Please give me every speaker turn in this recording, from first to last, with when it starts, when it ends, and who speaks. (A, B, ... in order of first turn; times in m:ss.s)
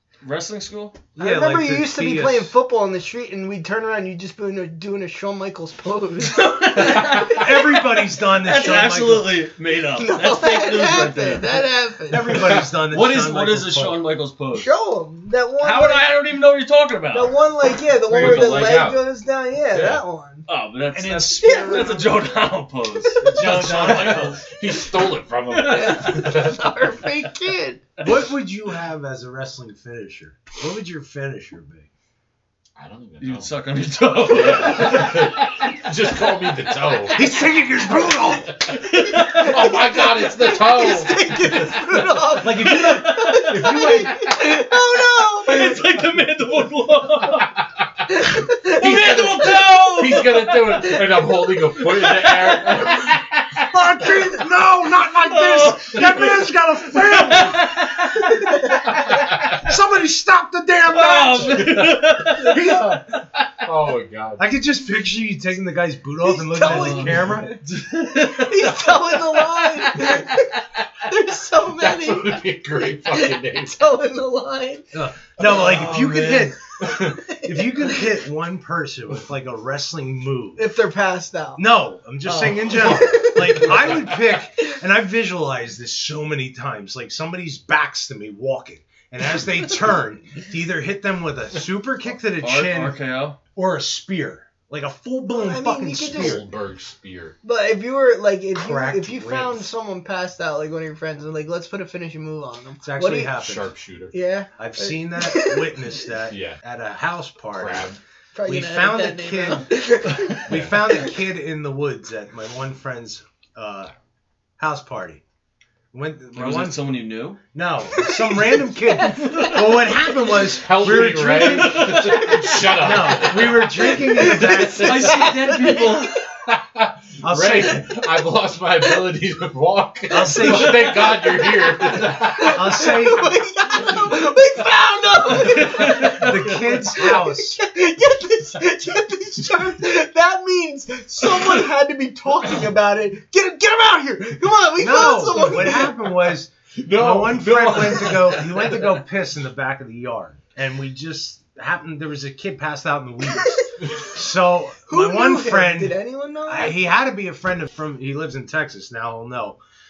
0:00.2-0:01.0 A
0:01.1-0:02.6 B
0:01.2-0:07.5 C
0:06.2-0:14.7 A
0:07.2-0:09.4 B
0:10.0-0:12.3 C
0:12.1-0:14.0 B
0:14.5-0:16.1 C
0:15.6-0:17.5 A
0:17.1-0:20.5 C
0:18.0-0:18.8 A
0:18.1-0:19.0 D
0:19.7-0:24.5 A
0:20.9-0:22.2 B
0:21.3-0:22.2 C
0:23.0-0:23.5 C
0:23.3-0:24.4 B
0:23.4-0:26.7 D
0:25.5-0:26.1 A
0:25.6-0:27.8 C
0:28.0-0:31.9 B
0:32.8-0:33.5 D
0:33.2-0:35.8 A
0:34.2-0:37.2 D
0:37.1-0:38.5 B
0:38.2-0:41.7 D
0:38.9-0:39.6 A
0:39.0-0:45.7 C
0:42.4-0:44.0 B
0:42.5-0:44.1 A
0:43.7-0:44.5 D
0:44.6-0:47.5 A
0:48.1-0:49.1 C
0:48.6-0:54.5 A
0:48.6-0:53.2 D
0:50.7-0:50.9 C
0:53.7-0:57.6 B
0:55.2-0:59.3 A
0:59.6-1:01.7 B
1:00.9-1:02.8 A
1:02.5-1:03.0 B
1:03.6-1:04.4 D
1:04.4-1:07.6 B
1:06.2-1:07.6 C
1:06.6-1:10.8 A
1:08.3-1:10.5 C
1:11.0-1:14.9 C
1:11.7-1:13.8 D
1:14.9-1:16.6 B
1:15.4-1:16.6 A
1:17.0-1:18.0 C
1:17.3-1:20.7 B
1:20.6-1:21.6 C
1:21.6-1:33.0 B
1:22.2-1:23.0 A
1:22.8-1:23.8 C
1:32.2-1:33.4 A
1:33.5-1:36.4 B
1:35.3-1:36.4 C
1:36.1-1:37.4 D
1:37.4-1:43.4 C
1:38.5-1:39.7 B
1:42.8-1:43.7 B
1:43.4-1:44.1 D
1:44.1-1:46.1 C
1:44.6-1:47.9 B
1:46.3-1:46.6 D
1:47.5-1:48.0 D
1:48.3-1:51.1 C
1:48.5-1:49.8 B
1:50.5-1:53.9 B
1:54.6-1:55.2 B
1:55.9-1:56.8 B
1:56.3-1:57.4 A
1:57.5-2:02.1 B
1:58.0-2:00.0 C
1:59.2-1:59.6 A
2:00.5-2:05.2 D
2:01.4-2:02.6 A
2:02.1-2:02.6 C
2:02.7-2:05.1 B
2:03.6-2:06.1 C
2:04.8-2:06.1 A
2:06.5-2:12.6 D
2:07.2-2:07.8 B
2:10.1-2:10.9 B
2:10.5-2:26.1 C
2:12.5-2:13.3 B
2:15.3-2:17.0 A
2:16.0-2:17.6 B
2:24.8-2:39.6 B
2:26.8-2:28.5 D
2:28.5-2:28.8 A
2:33.4-2:33.6 C
2:34.9-2:36.8 C